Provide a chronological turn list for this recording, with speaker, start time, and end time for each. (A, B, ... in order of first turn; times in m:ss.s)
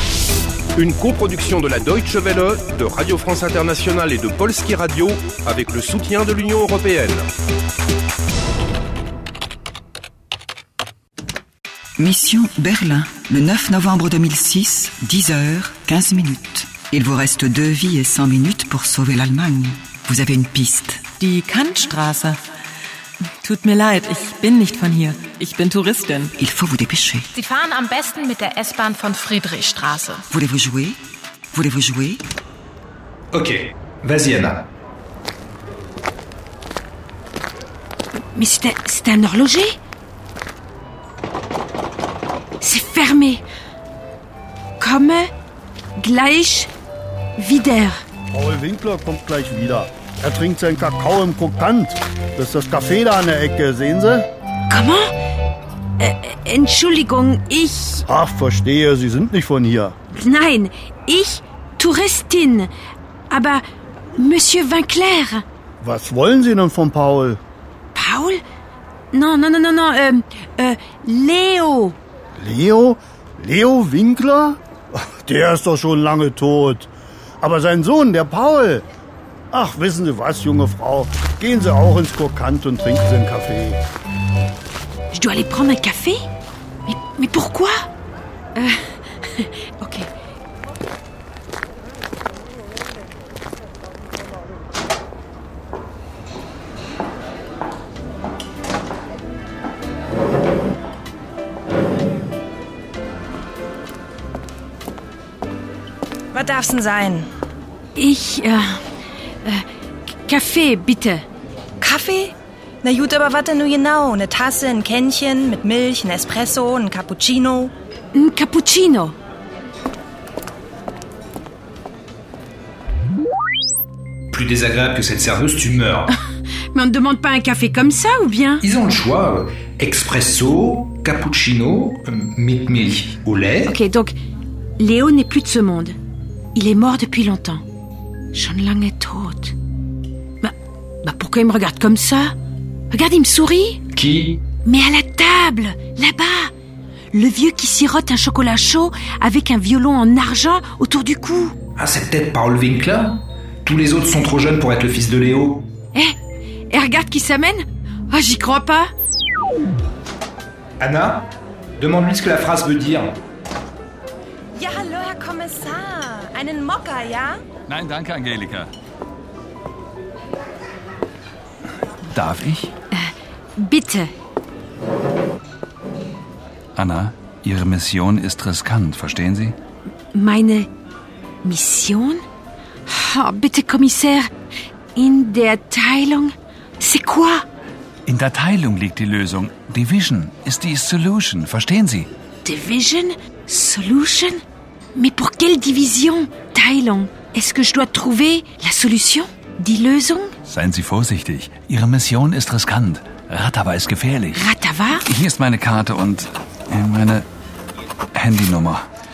0:00.8-0:07.3 A
0:12.0-0:21.0 B
0:21.2-0:22.4 C
0:23.4-0:26.4 C
0:26.4-0:27.3 B
0:27.4-0:30.3 D
0:30.3-0:31.0 B
0:31.5-0:32.2 B
0:33.3-0:34.7 E
0:38.3-0:39.8 F
0:42.6-0:43.4 F
0:44.8-0:45.3 F
0:46.0-0:46.7 F
0:47.4-0:48.0 F
0:48.3-0:54.3 G
0:54.7-0:55.1 F
0:56.0-0:58.0 F
0:58.1-1:00.0 G
1:00.1-1:02.7 F
1:03.3-1:03.6 F
1:04.2-1:05.4 F
1:05.8-1:07.4 G
1:08.0-1:08.4 F
1:09.1-1:12.0 F
1:12.4-1:16.9 G
1:17.4-1:18.9 G
1:19.5-1:23.8 G
1:25.1-1:26.2 F
1:26.9-1:27.8 F
1:29.3-1:30.1 F
1:46.3-1:47.3 H
1:48.0-1:48.8 F
1:50.2-1:51.2 F
1:51.8-1:57.7 H
1:58.1-1:59.2 F
2:04.3-2:06.1 E
2:06.7-2:08.6 F
2:08.6-2:13.8 E
2:13.6-2:14.1 F
2:14.8-2:16.0 F
2:16.6-2:17.6 F
2:18.3-2:19.6 F
2:20.4-2:22.3 F
2:22.9-2:23.8 F
2:23.9-2:24.4 E
2:24.6-2:26.5 F
2:27.1-2:31.6 F
2:31.8-2:35.7 E
2:36.7-2:38.9 F
2:40.8-2:41.3 E
2:41.8-2:43.2 E
2:44.6-2:47.4 H
2:47.7-2:48.7 I
2:52.1-2:52.7 I
2:52.9-2:54.1 F
2:56.8-2:59.6 I
3:00.1-3:00.7 F
3:01.4-3:02.2 F
3:02.9-3:04.3 F
3:05.0-3:07.4 F
3:08.1-3:12.1 I
3:12.4-3:14.4 F
3:15.0-3:20.3 F
3:20.5-3:24.4 I
3:24.3-3:25.1 F
3:25.0-3:27.3 I
3:28.2-3:28.8 I